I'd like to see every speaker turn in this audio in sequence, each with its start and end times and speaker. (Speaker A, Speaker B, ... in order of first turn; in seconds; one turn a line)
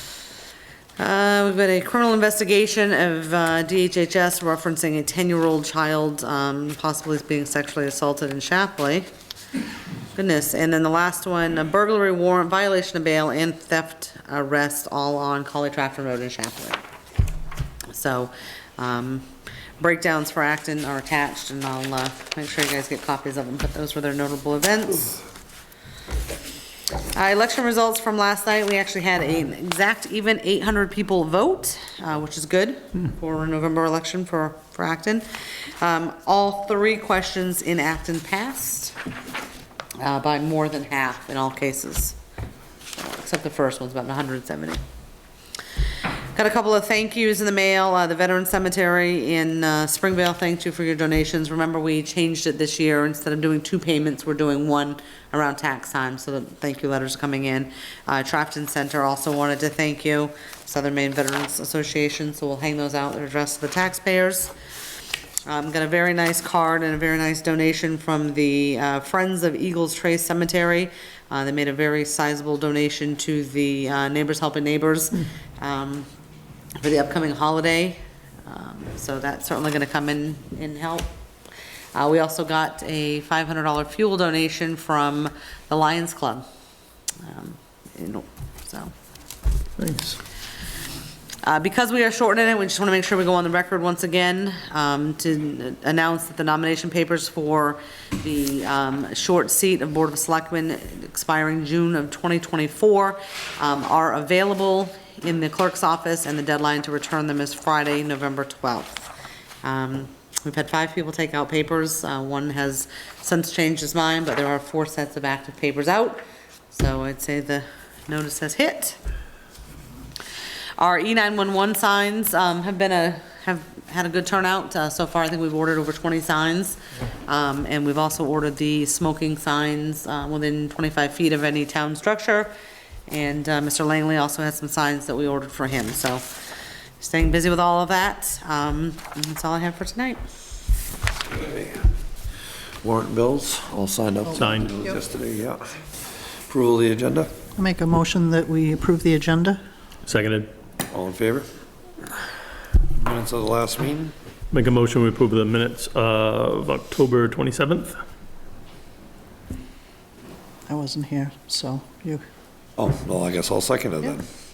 Speaker A: 1.0-9.1
Speaker A: 10.2-16.8
Speaker A: 17.9-25.2
Speaker A: 27.1-35.2
Speaker A: 35.8-38.9
Speaker A: 40.0-42.2
Speaker A: 43.0-44.8
Speaker A: 46.3-64.5
Speaker A: 65.5-76.1
Speaker A: 76.8-81.1
Speaker A: 81.9-86.4
Speaker A: 87.2-88.9
Speaker B: 89.8-90.2
Speaker A: 91.4-109.1
Speaker A: 109.6-119.0
Speaker A: 120.8-132.5
Speaker A: 133.1-136.3
Speaker A: 137.0-140.2
Speaker C: 141.3-141.9
Speaker C: 142.8-145.8
Speaker B: 144.3-144.7
Speaker C: 146.5-147.3
Speaker D: 147.6-149.6
Speaker B: 150.1-150.5
Speaker C: 150.9-151.5
Speaker C: 153.0-154.1
Speaker B: 154.5-158.0
Speaker D: 160.7-162.2
Speaker C: 162.8-164.2